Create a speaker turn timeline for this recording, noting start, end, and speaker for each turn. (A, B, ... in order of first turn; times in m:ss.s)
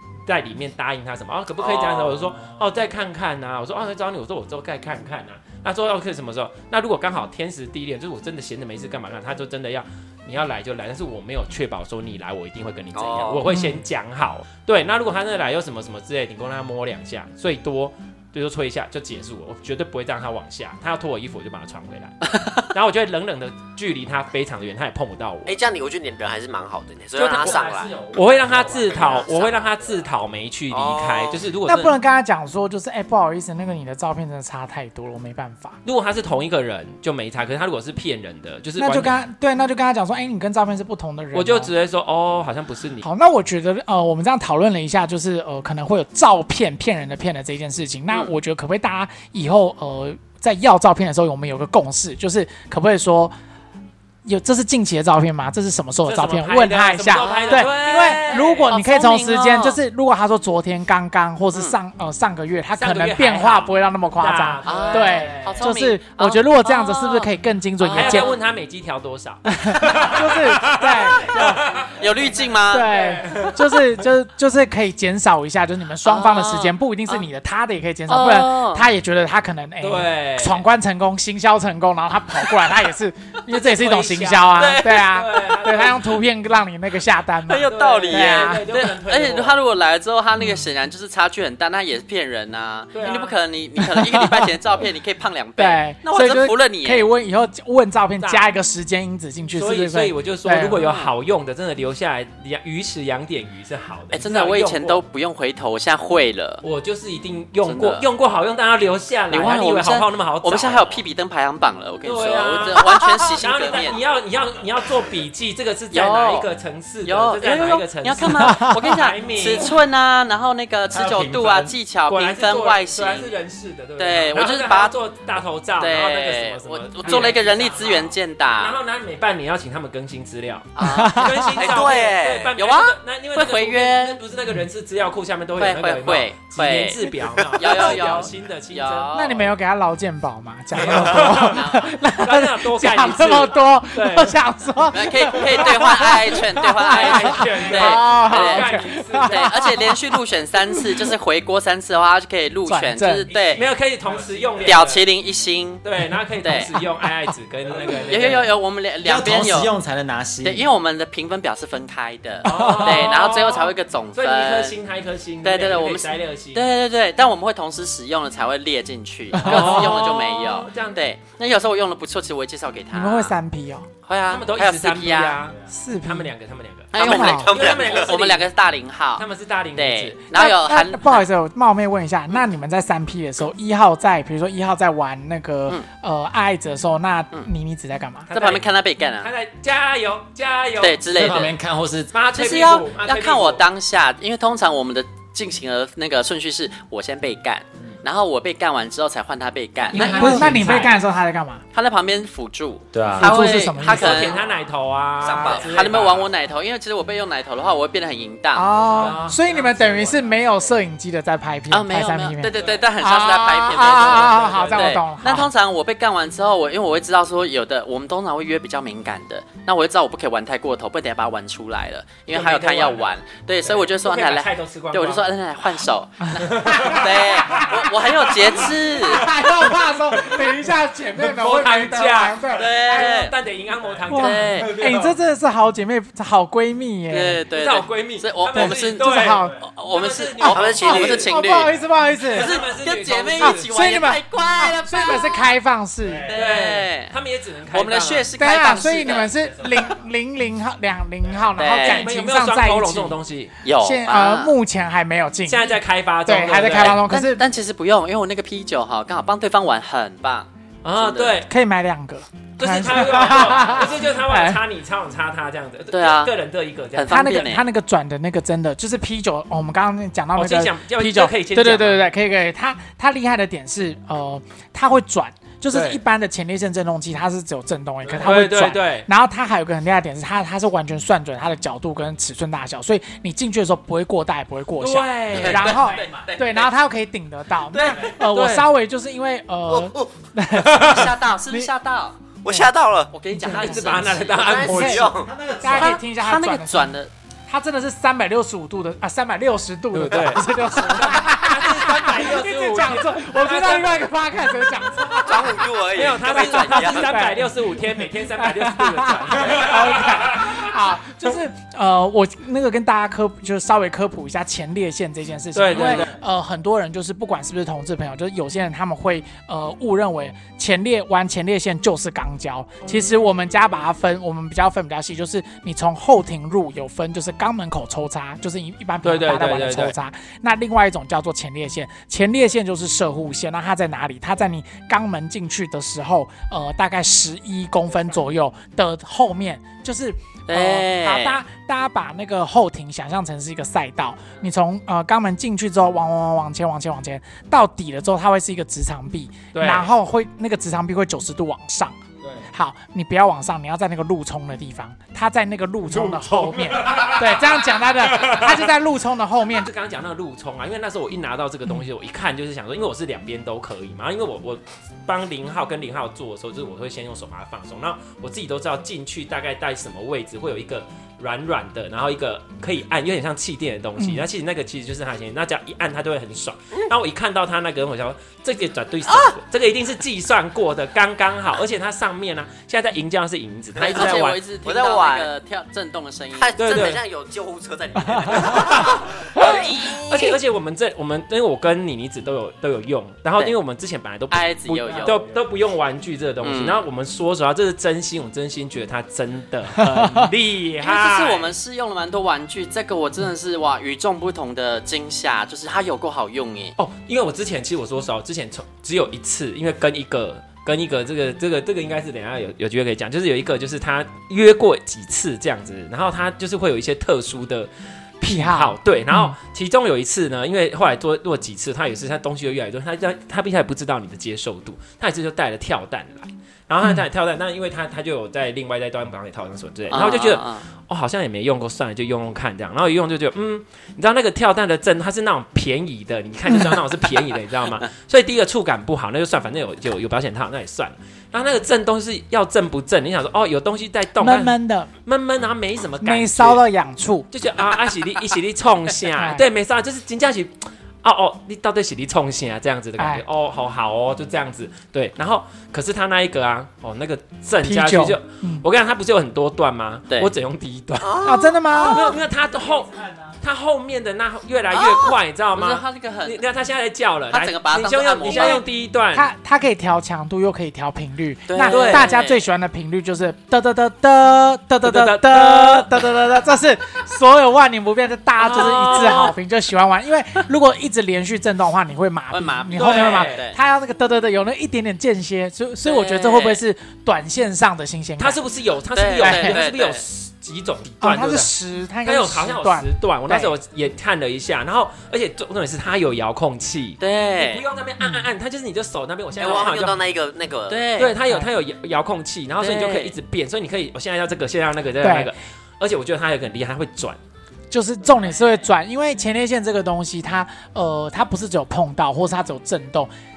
0:00.3-0:25.6 A
0:01.6-0:02.4 B
0:13.0-0:13.4 B
0:13.5-0:13.8 C
0:25.5-0:29.7 B
0:27.2-0:31.9 A
0:30.7-0:31.4 B
0:31.6-0:35.8 C
0:35.8-0:39.1 A
0:38.8-0:41.7 C
0:41.4-0:43.0 A
0:43.0-0:53.3 C
0:54.2-1:08.3 C
0:56.1-0:58.7 A
0:57.2-0:59.8 D
1:02.8-1:05.7 A
1:04.6-1:08.4 D
1:07.9-1:11.9 A
1:09.5-1:11.6 C
1:11.3-1:12.9 D
1:12.7-1:28.7 C
1:12.9-1:13.7 A
1:16.0-1:17.2 D
1:18.1-1:18.9 D
1:19.8-1:20.6 A
1:23.5-1:26.2 A
1:27.5-1:37.1 D
1:27.5-1:29.6 A
1:32.9-1:33.4 A
1:33.8-1:34.5 C
1:35.6-1:40.8 C
1:38.2-1:38.5 A
1:39.6-1:45.0 A
1:40.7-1:41.1 D
1:44.1-1:46.6 D
1:46.6-1:51.0 A
1:47.6-1:48.1 D
1:49.3-1:54.0 D
1:52.0-1:59.8 A
1:55.9-1:56.5 D
1:57.0-2:03.3 D
2:01.0-2:19.5 A
2:04.0-2:05.0 D
2:05.8-2:08.8 D
2:10.8-2:14.2 D
2:10.8-2:11.6 C
2:11.6-2:12.5 B
2:15.6-2:19.4 D
2:19.1-2:30.0 C
2:20.8-2:24.4 A
2:21.4-2:21.9 D
2:24.9-2:33.7 D
2:26.9-2:29.8 A
2:32.7-2:33.3 C
2:33.3-2:35.0 A
2:34.6-2:35.8 D
2:35.8-2:38.5 A
2:36.4-2:36.7 D
2:36.7-2:37.3 C
2:38.0-2:39.8 D
2:39.0-2:40.6 E
2:40.4-2:44.8 D
2:42.4-2:46.7 A
2:42.5-2:43.1 C
2:45.4-2:53.4 D
2:49.3-2:49.9 C
2:49.4-2:51.0 A
2:52.9-2:53.9 C
2:54.0-2:55.4 D
2:54.3-2:58.5 A
2:55.7-2:56.3 C
2:56.9-2:59.2 D
2:57.0-2:57.5 C
2:57.0-2:58.2 B
2:59.2-3:00.2 A
2:59.8-3:01.2 D
3:00.3-3:08.3 C
3:08.3-3:08.6 A
3:08.3-3:09.3 D
3:09.2-3:11.5 A
3:10.8-3:11.6 D
3:11.1-3:12.1 E
3:12.1-3:13.6 A
3:12.3-3:20.8 D
3:19.9-3:20.9 A
3:19.9-3:21.6 C
3:19.9-3:20.9 E
3:21.7-3:24.4 D
3:22.9-3:23.4 E
3:23.2-3:24.3 C
3:23.8-3:26.3 A
3:25.2-3:26.0 B
3:25.4-3:28.8 D
3:28.5-3:35.5 C
3:28.8-3:30.2 A
3:31.7-3:49.3 D
3:33.8-3:35.1 A
3:42.3-3:43.1 A
3:43.6-3:45.3 A
3:46.4-3:47.7 A
3:46.5-3:47.8 C
3:48.4-3:48.8 A
3:48.9-3:52.7 C
3:50.1-3:50.5 A
3:51.2-3:55.2 A
3:52.5-3:53.4 D
3:54.1-3:57.4 C
3:54.1-3:54.7 D
3:57.1-4:01.8 D
3:57.5-4:01.3 A
3:58.5-3:59.6 C
4:00.4-4:01.3 B
4:00.8-4:02.5 C
4:02.3-4:05.5 D
4:02.3-4:03.7 A
4:03.4-4:06.3 C
4:06.3-4:07.2 D
4:06.3-4:08.3 A
4:07.7-4:09.9 D
4:08.4-4:13.2 C
4:11.6-4:12.1 D
4:11.8-4:13.6 A
4:13.6-4:14.6 D
4:13.8-4:15.7 C
4:15.5-4:17.0 A
4:16.3-4:17.4 C
4:17.0-4:21.4 D
4:20.8-4:21.5 A
4:21.5-4:24.6 C
4:22.6-4:27.2 A
4:25.9-4:26.3 D
4:27.0-4:27.6 D
4:27.1-4:51.7 C
4:30.4-4:32.1 A
4:35.7-4:36.0 A
4:38.1-4:39.1 A
4:44.8-4:45.8 A
4:45.4-4:46.7 D
4:47.7-4:48.2 D
4:48.2-4:48.7 A
4:49.7-4:50.1 B
4:50.7-4:52.2 D
4:52.4-4:53.1 B
4:53.1-4:54.7 D
4:53.3-4:56.9 C
4:53.5-4:55.1 A
4:54.1-4:55.3 B
4:55.2-4:55.9 E
4:55.7-4:57.1 D
4:57.5-5:05.7 C
4:59.9-5:04.0 A
5:05.2-5:07.2 B
5:05.9-5:10.7 A
5:06.3-5:52.0 C
5:15.6-5:16.2 A
5:29.0-5:29.9 A
5:40.5-5:41.4 D
5:49.5-5:49.9 A
5:52.5-5:59.7 C
5:55.9-5:58.7 A
5:59.5-6:24.4 A
6:14.0-6:14.2 C
6:23.8-6:26.5 D
6:23.9-6:25.3 B
6:26.3-6:30.3 B
6:26.6-6:27.0 A
6:28.3-6:41.5 A
6:29.5-6:30.0 D
6:34.3-6:35.2 D
6:36.4-6:36.8 D
6:39.8-6:40.3 C
6:40.8-6:46.8 D
6:46.8-6:57.7 A
6:58.2-6:59.4 C
6:58.2-7:26.6 A
7:09.9-7:10.6 D
7:24.2-7:24.9 C
7:26.0-7:27.3 C
7:27.3-7:41.1 A
7:29.2-7:29.5 C
7:33.0-7:33.2 C
7:37.6-7:38.6 C
7:41.0-7:42.1 B
7:41.2-7:42.2 C
7:41.8-7:49.3 A
7:44.7-7:46.4 D
7:47.3-7:48.6 D
7:48.3-8:08.4 C
7:51.5-7:52.4 D
7:51.6-7:52.1 A
7:54.8-7:55.9 A
7:58.4-7:59.3 A
7:58.6-7:59.3 D
8:02.3-8:03.6 D
8:02.8-8:03.4 A
8:05.8-8:06.6 D
8:08.2-8:11.5 A
8:08.9-8:10.0 D
8:09.2-8:09.6 C
8:11.0-8:13.5 C
8:12.0-8:20.0 A
8:17.0-8:17.6 D
8:18.0-8:18.3 C
8:19.4-8:20.9 B
8:20.7-8:21.2 D
8:21.0-8:27.2 A
8:22.6-8:23.2 D
8:25.0-8:25.3 C
8:27.7-8:33.1 C